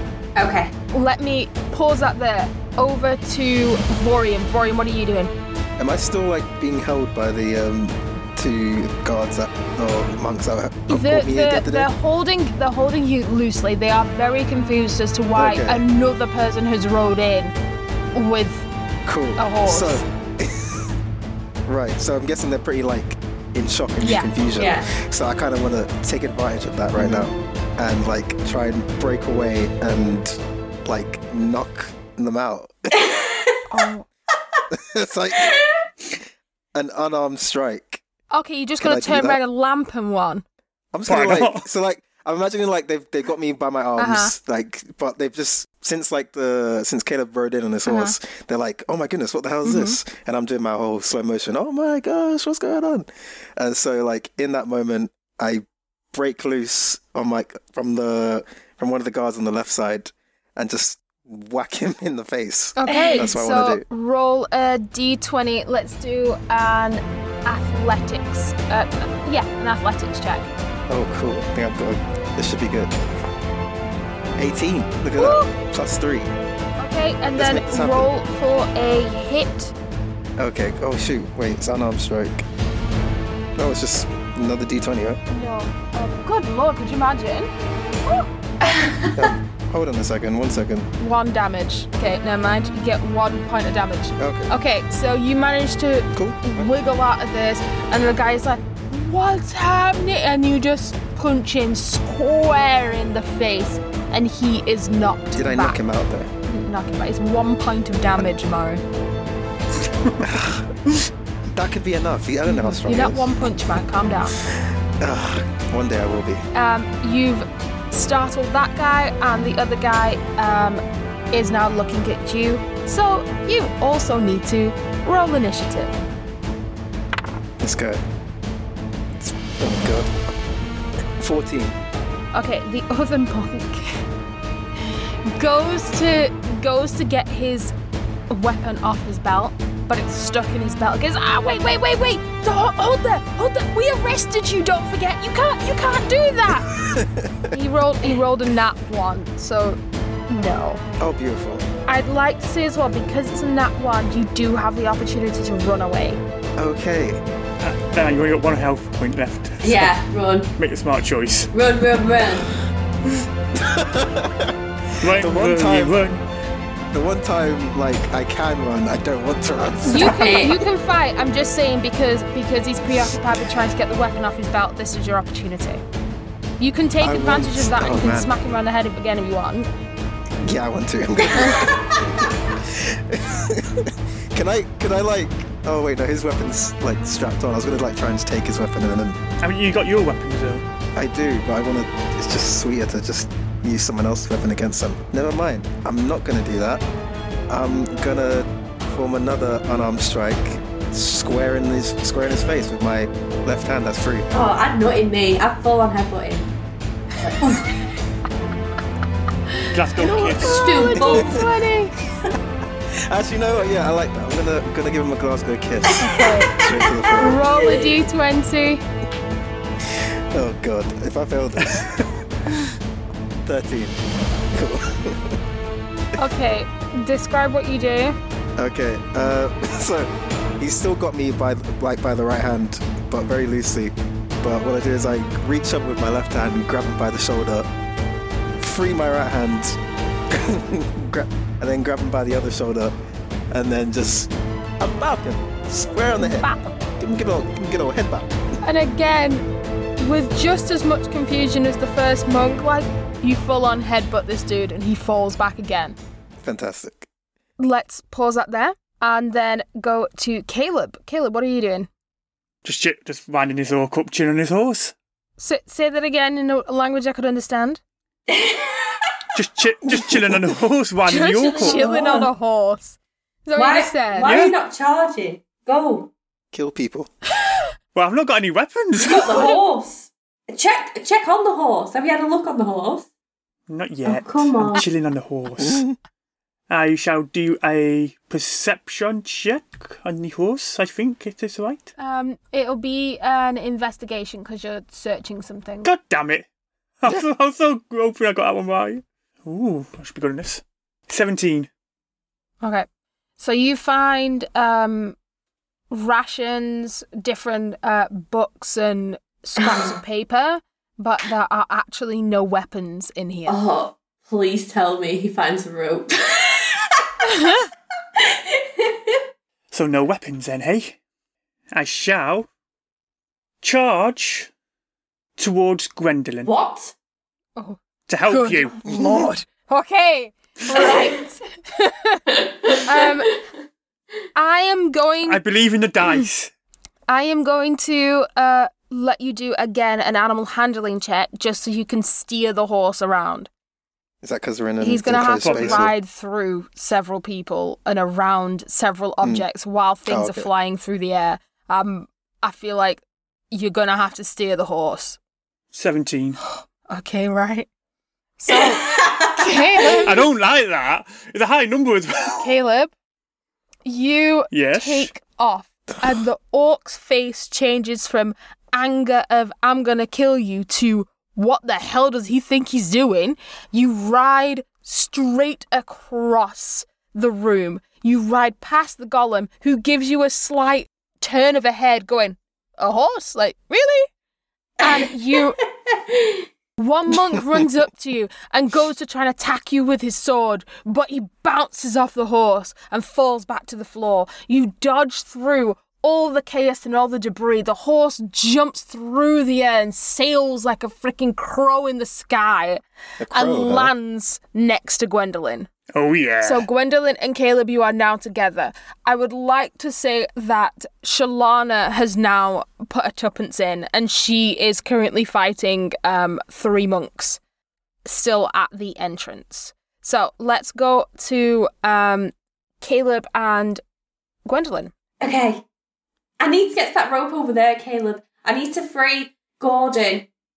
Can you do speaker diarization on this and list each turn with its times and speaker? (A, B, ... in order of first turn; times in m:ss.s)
0:00.4-0:00.7 A
0:00.9-0:05.3 B
0:05.8-0:11.9 C
0:10.9-0:17.5 B
0:15.4-0:15.8 C
0:18.1-0:18.6 B
0:19.0-0:20.9 C
0:19.4-0:20.0 B
0:21.6-0:32.7 C
0:24.0-0:24.3 B
0:24.6-0:24.9 A
0:27.0-0:27.3 B
0:32.9-0:33.6 A
0:33.7-0:34.0 B
0:34.7-0:35.5 C
0:35.4-0:35.7 A
0:36.7-0:38.0 C
0:38.3-0:40.4 B
0:38.8-0:39.4 C
0:40.9-1:03.8 C
0:41.1-0:41.6 D
0:44.0-0:44.3 B
0:47.8-0:48.2 B
0:49.6-0:50.0 B
1:02.8-1:10.5 B
1:02.9-1:03.2 A
1:10.9-1:12.9 C
1:14.4-1:16.3 C
1:15.2-1:15.5 B
1:16.8-1:19.7 B
1:17.3-1:18.1 C
1:20.4-1:22.4 C
1:23.6-1:25.2 C
1:25.3-1:27.5 B
1:28.6-1:29.3 A
1:29.1-1:30.9 C
1:31.0-1:45.8 B
1:34.2-1:34.5 C
1:36.1-1:36.7 C
1:45.3-1:46.3 C
1:46.4-1:48.8 B
1:50.2-1:50.7 C
1:51.5-1:53.3 C
1:52.4-1:54.4 B
1:54.4-1:56.4 C
1:56.5-2:05.9 B
2:07.6-2:08.0 C
2:09.2-2:10.1 C
2:11.2-2:11.8 C
2:12.3-2:14.0 B
2:15.3-2:17.7 B
2:18.3-2:26.7 B
2:26.5-2:27.5 C
2:27.5-2:30.8 B
2:31.0-2:31.6 C
2:31.9-2:36.2 B
2:36.6-2:37.2 C
2:37.6-2:40.0 D
2:39.6-2:40.5 A
2:40.6-2:41.5 D
2:41.5-2:42.5 A
2:43.6-2:46.0 C
2:45.0-2:46.2 D
2:46.9-2:50.4 C
2:49.8-2:55.8 B
2:49.9-2:50.6 A
2:56.6-2:59.7 B
2:57.0-2:58.3 C
3:00.4-3:09.2 C
3:01.3-3:02.3 A
3:09.4-3:10.6 D
3:10.9-3:16.8 C
3:17.5-3:24.3 C
3:24.3-3:26.5 A
3:27.2-3:27.7 A
3:29.7-3:30.7 D
3:30.0-3:32.0 B
3:30.0-3:31.5 A
3:30.9-3:31.4 C
3:33.1-3:37.4 C
3:35.9-3:38.0 A
3:36.0-3:36.5 B
3:37.2-3:38.8 B
3:39.8-3:42.0 C
3:43.4-3:44.0 C
3:44.5-3:45.4 C
3:46.2-3:48.2 B
3:48.6-3:57.7 C
3:58.6-3:59.8 C
4:00.3-4:02.9 C
4:03.5-4:08.3 C
4:06.2-4:06.8 B
4:08.6-4:09.4 B
4:10.0-4:16.0 B
4:16.4-4:17.1 C
4:17.6-4:21.9 B
4:22.6-4:24.9 D
4:25.4-4:27.8 B
4:28.3-4:29.2 A
4:29.3-4:31.8 D
4:31.1-4:32.3 A
4:31.1-4:34.4 B
4:33.6-4:36.1 A
4:34.2-4:34.5 D
4:36.5-4:37.1 C
4:37.9-4:39.5 D
4:39.0-4:43.1 A
4:39.2-4:39.6 B
4:43.7-4:45.8 D
4:44.0-4:44.8 A
4:45.6-4:46.0 C
4:46.7-4:51.9 D
4:52.0-4:55.9 B
4:55.8-4:56.4 D
4:57.0-5:01.7 D
5:03.4-5:05.2 B
5:05.9-5:13.6 B
5:09.6-5:10.0 A
5:13.5-5:17.4 A
5:18.2-5:19.2 A
5:19.7-5:21.0 D
5:21.7-5:22.5 D
5:23.6-5:24.5 D
5:25.4-5:26.5 D
5:26.4-5:26.9 A
5:27.6-5:33.3 B
5:28.1-5:28.7 D
5:28.9-5:29.3 C
5:30.7-5:31.2 A
5:32.3-5:33.4 A
5:34.3-5:35.4 B
5:35.2-5:36.5 D
5:37.1-5:43.5 B
5:44.2-5:45.9 C
5:44.8-5:55.2 B
5:45.4-5:45.9 D
5:50.1-5:50.5 C
5:55.7-5:56.4 D
5:56.5-5:57.7 B
5:58.4-6:00.2 B
5:58.5-6:00.0 A
6:00.0-6:02.5 D
6:02.4-6:02.9 B
6:03.8-6:24.1 B
6:04.5-6:05.1 D
6:24.8-6:25.6 B
6:24.8-6:26.5 A
6:26.8-6:45.7 B
6:43.2-6:43.9 C
6:45.9-6:46.6 D
6:46.4-6:57.4 B
6:58.0-7:03.8 B
7:04.4-7:04.9 B
7:05.2-7:05.6 A
7:06.4-7:10.3 A